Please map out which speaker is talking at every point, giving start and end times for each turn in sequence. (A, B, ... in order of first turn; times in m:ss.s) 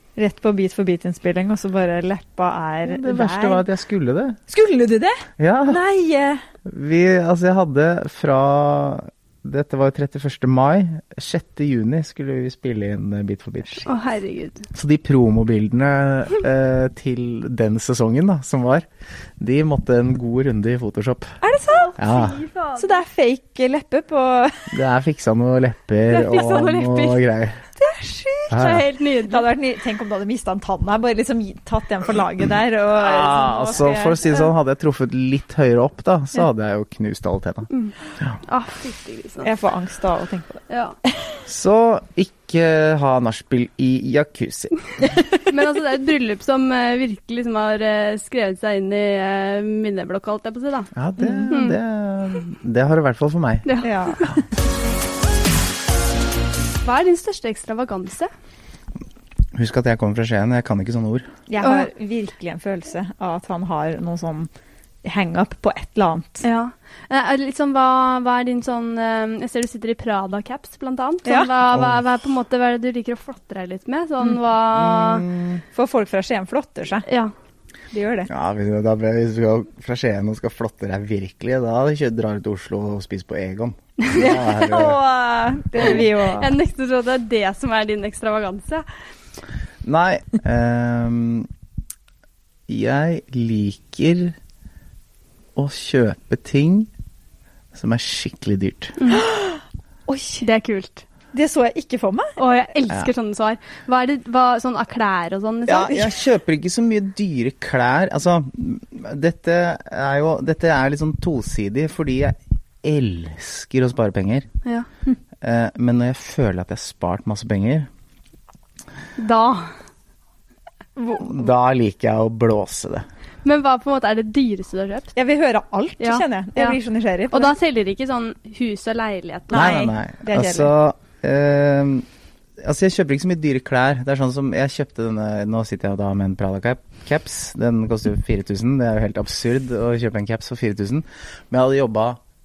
0:00.2-0:03.6 A
0:02.8-0:04.4 B
0:04.5-0:06.4 A
0:05.4-0:05.8 B
0:06.6-0:13.9 B
0:13.8-0:14.7 C
0:14.7-0:18.9 B
0:19.4-0:21.4 B
0:21.4-0:22.0 A
0:21.7-0:23.0 C
0:22.0-0:22.4 B
0:22.8-0:24.8 A
0:24.7-0:27.6 B
0:26.1-0:27.2 C
0:27.8-0:34.5 A
0:28.5-0:28.9 B
0:28.5-0:29.5 C
0:33.0-0:37.7 B
0:38.5-0:39.5 C
0:39.4-0:41.4 A
0:40.7-0:41.0 C
0:41.5-0:44.7 B
0:45.5-0:50.9 C
0:51.0-0:53.7 B
0:51.2-0:51.5 A
0:51.5-0:51.8 C
0:53.6-0:54.3 C
0:53.8-0:54.3 A
0:56.8-0:58.3 C
0:59.5-1:01.3 B
1:01.5-1:04.5 A
1:01.6-1:01.9 C
1:05.0-1:06.4 A
1:06.4-1:15.3 C
1:11.3-1:11.5 A
1:11.7-1:12.0 B
1:14.7-1:15.6 B
1:15.7-1:17.1 A
1:17.1-1:17.3 C
1:17.9-1:18.3 A
1:18.3-1:25.0 B
1:24.1-1:26.6 A
1:25.8-1:28.8 C
1:29.8-1:31.5 B
1:32.7-1:34.4 B
1:35.6-1:36.9 B
1:37.7-1:39.0 B
1:39.0-1:39.2 C
1:39.1-1:40.5 A
1:40.4-1:41.0 C
1:41.3-1:42.4 A
1:42.4-1:46.1 C
1:45.7-1:54.5 B
1:55.4-1:57.9 B
1:59.2-1:59.7 C
2:01.0-2:01.3 A
2:01.2-2:03.0 B
2:03.4-2:05.2 C
2:05.2-2:07.5 A
2:06.0-2:06.8 C
2:07.3-2:09.9 C
2:09.5-2:10.7 A
2:09.5-2:12.1 B
2:12.6-2:22.2 B